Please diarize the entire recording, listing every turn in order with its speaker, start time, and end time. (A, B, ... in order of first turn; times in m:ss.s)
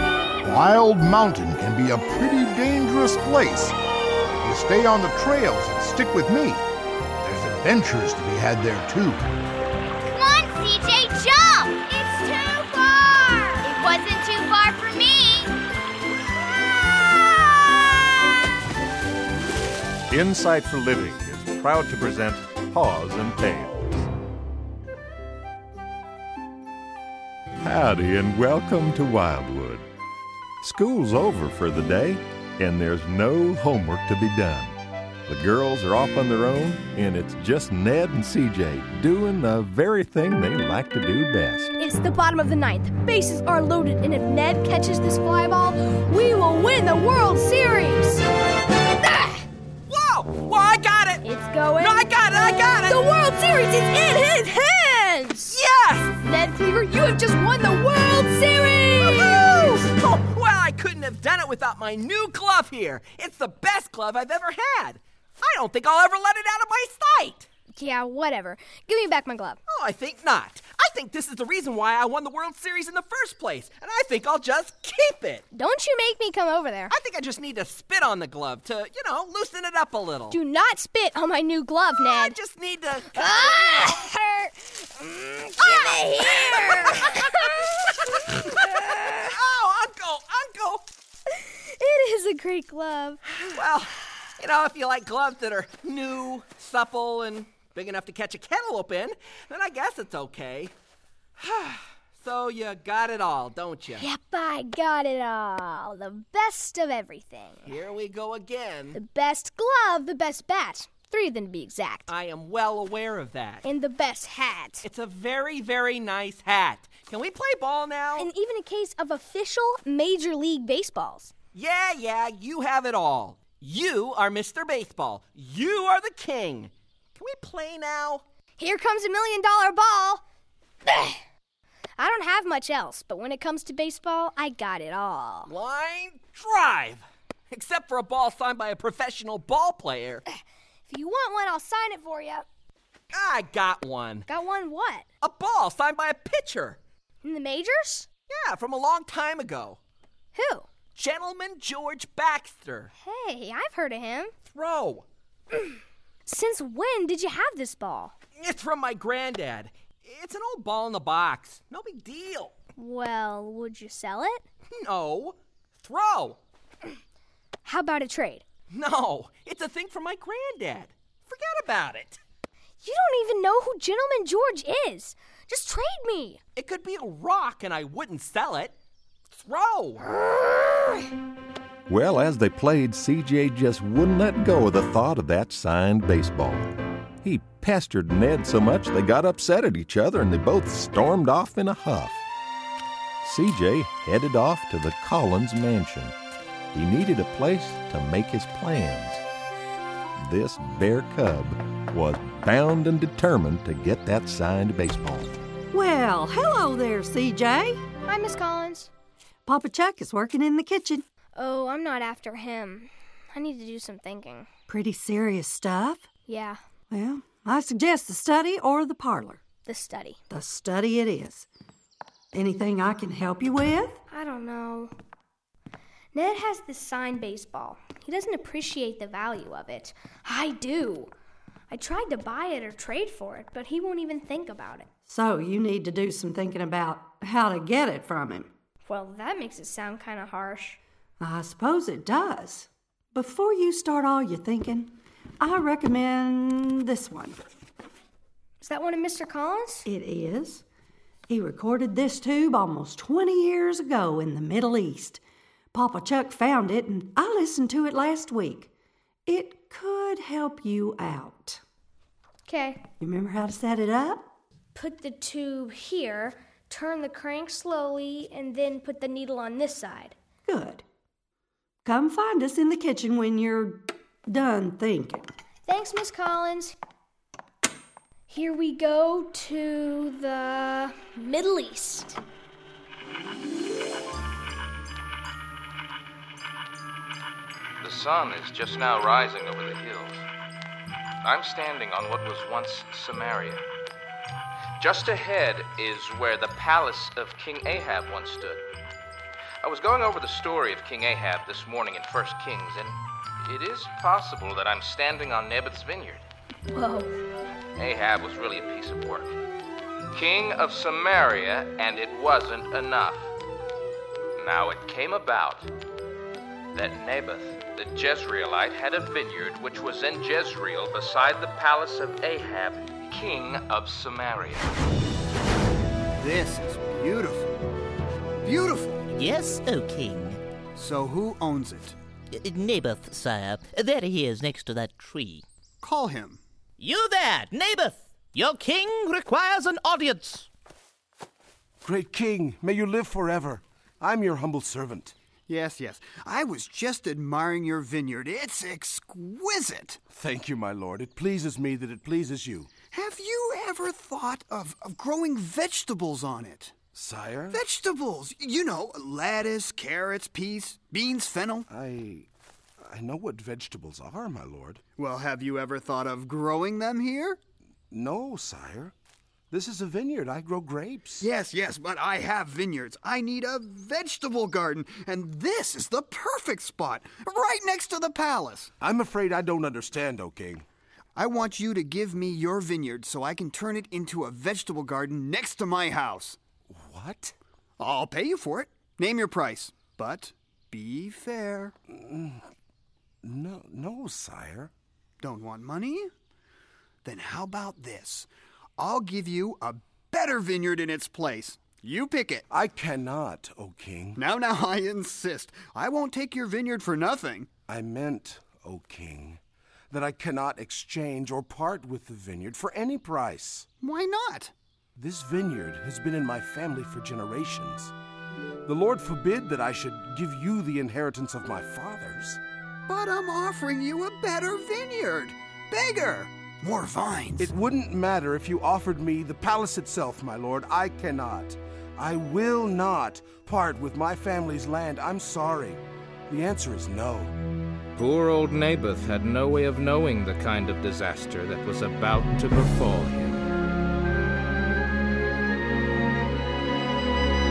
0:00.4-0:06.6 A
0:07.2-0:09.2 A
0:10.1-0:15.5 B
0:16.7-0:18.0 B
0:20.1-0:24.0 C
0:27.6-0:29.9 C
0:30.6-0:41.7 C
0:41.8-0:48.2 D
0:49.1-0:49.4 D
0:49.9-0:51.2 E
0:51.2-0:55.6 D
0:51.8-0:53.0 E
0:55.5-0:56.2 E
0:56.2-0:59.9 D
0:59.0-1:07.5 E
1:07.8-1:09.6 D
1:09.7-1:15.4 E
1:15.5-1:16.9 D
1:16.9-1:20.4 E
1:20.3-1:22.4 D
1:22.0-1:24.0 E
1:23.1-1:27.5 D
1:25.6-1:27.6 E
1:28.3-1:30.8 E
1:28.5-1:29.1 D
1:31.3-1:33.2 D
1:33.5-1:40.7 E
1:41.4-1:44.0 E
1:43.9-1:47.7 D
1:47.7-1:49.0 E
1:49.0-1:52.1 D
1:52.1-1:53.6 E
1:53.6-1:54.8 D
1:54.8-1:58.3 E
1:58.2-2:01.3 D
2:01.5-2:08.2 E
2:08.6-2:10.2 D
2:10.9-2:11.1 D
2:12.0-2:15.5 D
2:15.5-2:20.2 E
2:20.9-2:22.4 D
2:23.1-2:24.3 E
2:24.3-2:25.1 D
2:25.2-2:26.8 E
2:27.2-2:28.1 D
2:28.3-2:29.8 E
2:30.3-2:30.7 D
2:31.0-2:32.9 E
2:33.0-2:34.3 D
2:34.5-2:35.1 E
2:36.3-2:38.1 D
2:38.4-2:42.5 E
2:42.8-2:44.4 D
2:44.7-2:46.4 E
2:47.6-2:48.4 D
2:48.7-2:52.2 E
2:52.8-2:56.4 D
2:56.6-2:58.8 E
2:59.3-3:00.0 E
3:01.9-3:12.2 C
3:13.2-3:16.2 C
3:16.7-3:19.2 C
3:20.2-3:25.3 C
3:25.7-3:27.8 F
3:28.0-3:28.9 D
3:29.5-3:31.0 F
3:31.4-3:34.5 D
3:34.7-3:36.1 F
3:36.3-3:36.6 D
3:36.9-3:39.4 F
3:39.6-3:40.2 D
3:40.3-3:41.5 F
3:42.3-3:44.0 F
3:44.1-3:44.9 D
3:46.1-3:51.1 D
3:51.7-3:54.9 D
3:55.1-3:58.5 F
3:58.9-4:00.8 D
4:01.2-4:07.4 F
4:08.6-4:09.9 D
4:09.9-4:10.6 F
4:11.3-4:15.2 F
4:15.7-4:18.7 F
4:19.3-4:21.6 F
4:22.5-4:22.8 D
4:23.0-4:24.3 F
4:24.7-4:30.2 D
4:30.5-4:30.8 F
4:31.8-4:35.2 F
4:35.7-4:36.8 D
4:38.3-4:42.2 D
4:47.8-4:50.3 G
4:51.2-4:53.6 G
4:54.8-4:58.6 G
4:59.6-5:06.2 G
5:06.7-5:07.1 D
5:07.8-5:09.4 G
5:10.1-5:13.3 G
5:14.4-5:15.7 G
5:16.7-5:24.7 G
5:26.2-5:27.6 H
5:28.4-5:29.0 H
5:29.2-5:30.4 I
5:30.8-5:32.0 H
5:32.3-5:35.4 I
5:35.8-5:36.4 H
5:36.8-5:40.5 I
5:41.8-5:45.1 J
5:45.5-5:50.0 H
5:50.1-5:52.7 J
5:52.9-5:56.8 H
5:56.9-5:57.6 J
5:57.5-6:01.7 H
6:01.7-6:02.3 J
6:02.8-6:04.8 J
6:05.0-6:07.4 H
6:07.9-6:08.9 J
6:09.5-6:11.3 J
6:11.2-6:18.7 H
6:18.8-6:20.7 J
6:21.2-6:26.4 H
6:26.7-6:27.4 J
6:27.8-6:31.8 H
6:31.9-6:32.4 J
6:33.2-6:34.7 J
6:35.2-6:36.1 H
6:37.0-6:42.5 H
6:42.5-6:44.2 J
6:44.2-6:47.5 H
6:47.7-6:49.4 J
6:49.9-6:53.7 J
6:53.8-6:54.5 H
6:55.0-6:57.9 J
6:58.7-7:02.4 J
7:02.9-7:07.5 H
7:07.4-7:17.4 J
7:18.0-7:23.5 G